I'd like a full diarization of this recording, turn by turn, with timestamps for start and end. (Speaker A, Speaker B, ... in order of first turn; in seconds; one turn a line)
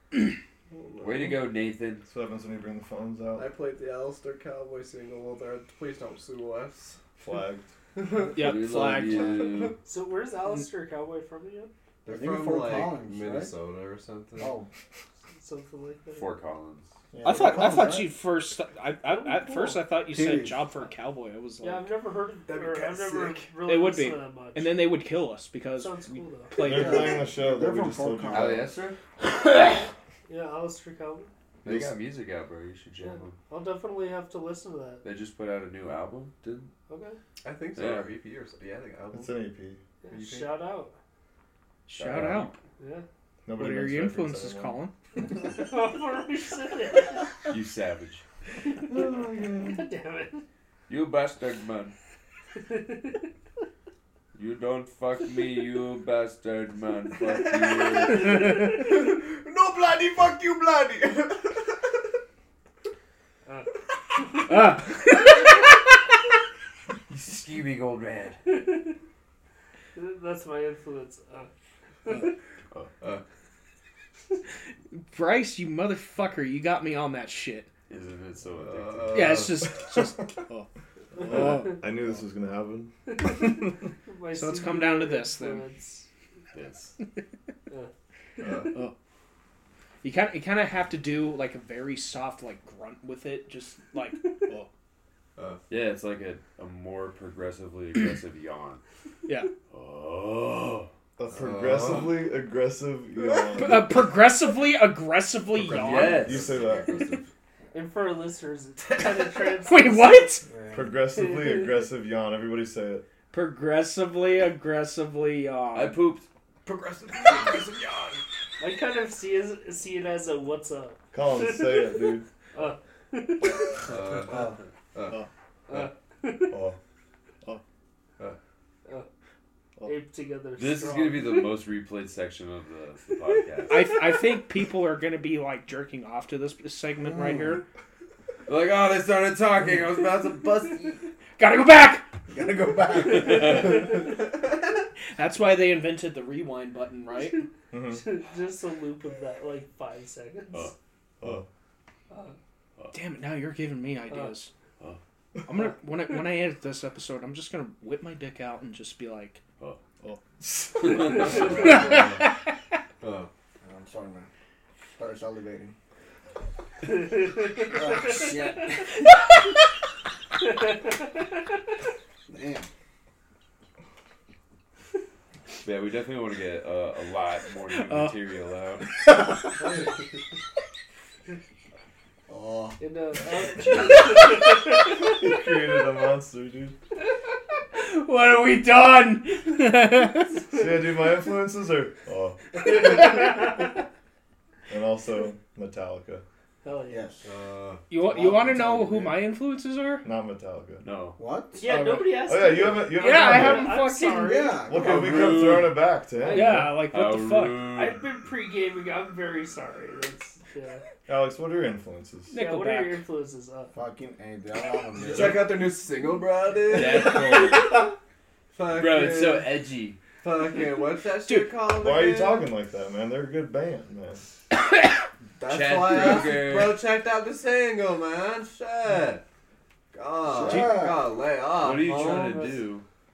Speaker A: 0.7-1.6
Speaker B: 1.0-2.0
Speaker C: 2.1-3.5
Speaker A: 3.4-7.0
Speaker C: 7.2-7.7
Speaker A: 8.0-9.8
Speaker B: 8.3-9.8
Speaker D: 8.3-9.4
Speaker E: 9.8-11.7
Speaker A: 12.1-14.6
Speaker F: 12.1-13.5
Speaker F: 14.4-14.7
Speaker E: 15.4-16.3
Speaker B: 16.1-16.9
Speaker F: 17.1-18.1
Speaker D: 17.2-21.9
Speaker E: 19.1-19.8
Speaker F: 20.1-20.6
Speaker E: 21.6-24.8
Speaker A: 22.5-23.5
Speaker D: 23.6-27.2
Speaker E: 25.8-26.6
Speaker C: 26.6-28.7
Speaker F: 26.6-28.7
Speaker B: 28.3-29.0
Speaker D: 29.2-29.8
Speaker E: 30.3-31.3
Speaker B: 31.6-33.4
Speaker E: 33.0-35.0
Speaker B: 35.0-36.7
Speaker E: 36.9-37.2
Speaker A: 37.4-39.4
Speaker B: 37.8-38.1
Speaker C: 39.1-39.8
Speaker E: 40.0-41.0
Speaker A: 40.1-40.5
Speaker D: 41.9-42.5
Speaker B: 41.9-42.6
Speaker C: 42.1-42.4
Speaker E: 42.8-43.1
Speaker C: 43.5-44.9
Speaker D: 43.6-44.9
Speaker E: 45.4-47.3
Speaker B: 47.5-48.2
Speaker E: 48.6-50.4
Speaker B: 50.9-51.9
Speaker E: 52.5-53.2
Speaker B: 54.3-58.7
Speaker A: 57.3-61.8
Speaker E: 58.1-59.0
Speaker E: 63.5-64.6
Speaker D: 64.5-65.6
Speaker B: 67.1-68.4
Speaker E: 68.5-69.0
Speaker E: 70.0-71.5
Speaker E: 72.1-72.3
Speaker D: 74.9-77.7
Speaker B: 77.9-79.5
Speaker A: 78.5-79.7
Speaker D: 79.1-80.7
Speaker E: 81.2-81.8
Speaker C: 81.2-83.8
Speaker D: 81.2-81.8
Speaker E: 83.1-86.1
Speaker D: 84.3-85.7
Speaker B: 86.5-86.9
Speaker E: 87.7-88.5
Speaker A: 88.4-88.8
Speaker D: 90.0-94.7
Speaker E: 94.2-94.5
Speaker A: 95.4-95.7
Speaker B: 95.7-98.8
Speaker B: 99.7-100.9
Speaker C: 101.2-104.1
Speaker A: 101.3-102.3
Speaker D: 103.5-106.3
Speaker A: 105.6-107.3
Speaker B: 105.6-107.0
Speaker C: 106.0-106.9
Speaker E: 107.7-110.4
Speaker D: 109.6-110.5
Speaker F: 110.5-110.9
Speaker C: 110.7-113.0
Speaker E: 111.1-111.7
Speaker D: 113.3-116.0
Speaker B: 115.7-116.3
Speaker A: 116.7-118.2
Speaker E: 118.6-123.9
Speaker C: 121.1-122.3
Speaker A: 123.8-125.3
Speaker E: 125.7-126.6
Speaker C: 126.5-126.8
Speaker E: 129.8-131.6
Speaker B: 130.6-133.9
Speaker D: 133.7-137.6
Speaker F: 137.0-137.6
Speaker B: 138.5-141.0
Speaker D: 141.4-142.1
Speaker F: 142.3-143.7
Speaker B: 143.1-143.9
Speaker E: 143.4-143.7
Speaker A: 143.4-144.1
Speaker D: 145.1-147.5
Speaker E: 147.2-150.7
Speaker C: 147.7-148.1
Speaker C: 151.2-151.5
Speaker E: 152.1-152.4
Speaker D: 152.9-154.5
Speaker D: 155.5-159.4
Speaker C: 160.1-161.2
Speaker B: 160.8-161.8
Speaker A: 161.2-162.3
Speaker D: 161.6-162.3
Speaker A: 163.0-163.3
Speaker F: 163.6-164.3
Speaker F: 165.0-165.8
Speaker E: 166.8-168.8
Speaker F: 167.7-168.7
Speaker E: 170.4-171.3
Speaker F: 172.3-172.7
Speaker B: 175.6-178.9
Speaker D: 177.7-178.2
Speaker F: 182.3-182.8
Speaker E: 182.8-185.3
Speaker C: 184.9-186.8
Speaker D: 187.7-190.3
Speaker C: 190.5-192.9
Speaker E: 192.6-193.8
Speaker C: 194.7-196.2
Speaker E: 196.6-197.0
Speaker F: 196.9-197.2
Speaker A: 197.2-197.8
Speaker D: 197.9-200.1
Speaker F: 198.0-199.2
Speaker C: 200.0-200.9
Speaker B: 200.8-201.2
Speaker F: 201.2-201.6
Speaker C: 201.6-203.8
Speaker E: 201.6-204.6
Speaker D: 202.9-204.5
Speaker F: 204.2-205.4
Speaker C: 204.6-206.8
Speaker B: 204.8-205.8
Speaker E: 206.2-206.7
Speaker D: 206.3-207.7
Speaker B: 206.8-208.0
Speaker E: 207.7-210.8
Speaker C: 211.1-212.3
Speaker D: 212.3-213.0
Speaker E: 212.3-213.7
Speaker F: 213.7-215.5
Speaker A: 215.0-217.7
Speaker B: 216.7-217.8
Speaker A: 218.5-219.6
Speaker B: 218.7-220.0
Speaker A: 220.2-222.5
Speaker D: 221.2-221.5
Speaker C: 221.7-224.2
Speaker A: 225.4-229.2
Speaker B: 225.5-226.8
Speaker A: 229.9-232.6
Speaker F: 230.3-231.1
Speaker D: 230.5-230.7
Speaker B: 231.6-232.8